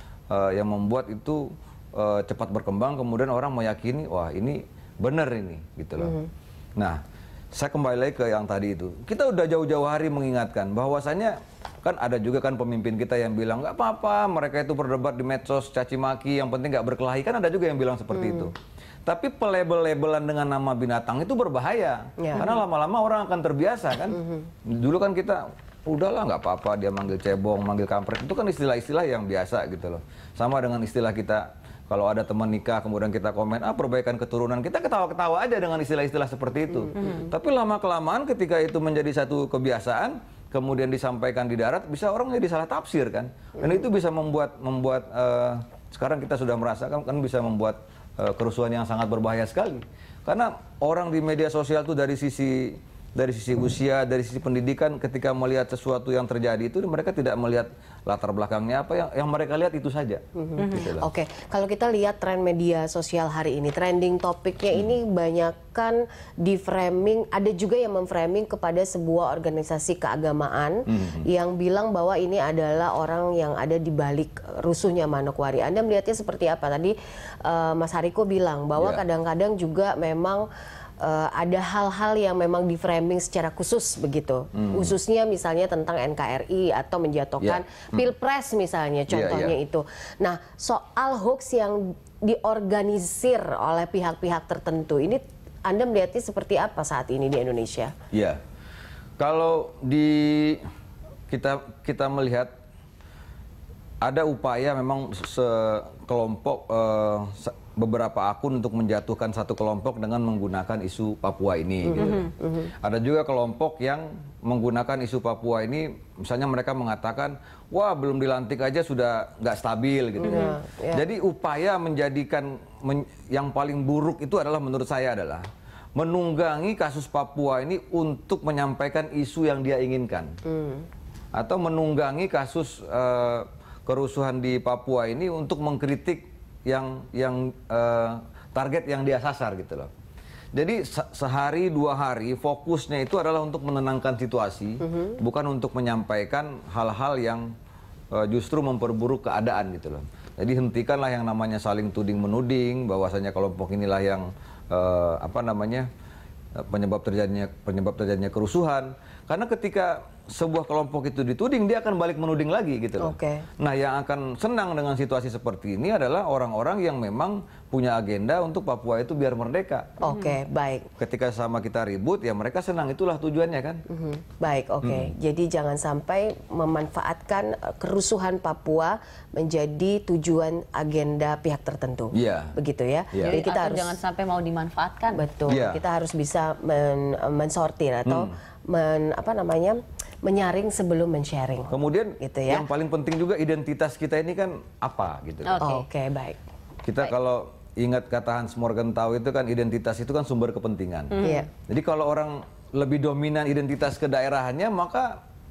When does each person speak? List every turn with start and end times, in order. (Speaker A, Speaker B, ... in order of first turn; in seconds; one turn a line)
Speaker A: 0.3-6.2
Speaker A: 7.5-18.5
Speaker B: 18.1-18.5
Speaker A: 19.1-61.1
Speaker B: 24.1-24.4
Speaker C: 37.0-37.3
Speaker B: 60.4-80.5
Speaker C: 60.6-60.9
Speaker A: 70.9-71.3
Speaker A: 78.8-79.0
Speaker B: 81.0-97.9
Speaker A: 84.5-84.9
Speaker A: 87.4-88.1
Speaker A: 89.1-89.6
Speaker A: 98.1-98.4
Speaker A: 99.2-100.6
Speaker A: 101.3-102.5
Speaker A: 104.0-112.3
Speaker B: 111.9-112.7
Speaker C: 112.0-112.3
Speaker A: 112.8-130.3
Speaker C: 120.2-120.6
Speaker B: 120.2-121.0
Speaker B: 130.5-130.9
Speaker A: 131.3-139.9
Speaker A: 140.5-147.5
Speaker A: 148.1-155.9
Speaker A: 156.6-169.9
Speaker B: 163.0-163.5
Speaker B: 170.0-170.9
Speaker C: 170.1-170.4
Speaker A: 171.0-173.8
Speaker B: 173.9-184.0
Speaker A: 174.8-175.1
Speaker A: 182.1-182.6
Speaker C: 183.2-185.2
Speaker B: 185.1-192.7
Speaker A: 185.5-185.8
Speaker A: 188.1-188.3
Speaker A: 191.7-195.6
Speaker C: 195.4-195.8
Speaker B: 195.6-196.4
Speaker A: 196.9-205.2
Speaker C: 201.1-201.5
Speaker B: 201.2-201.5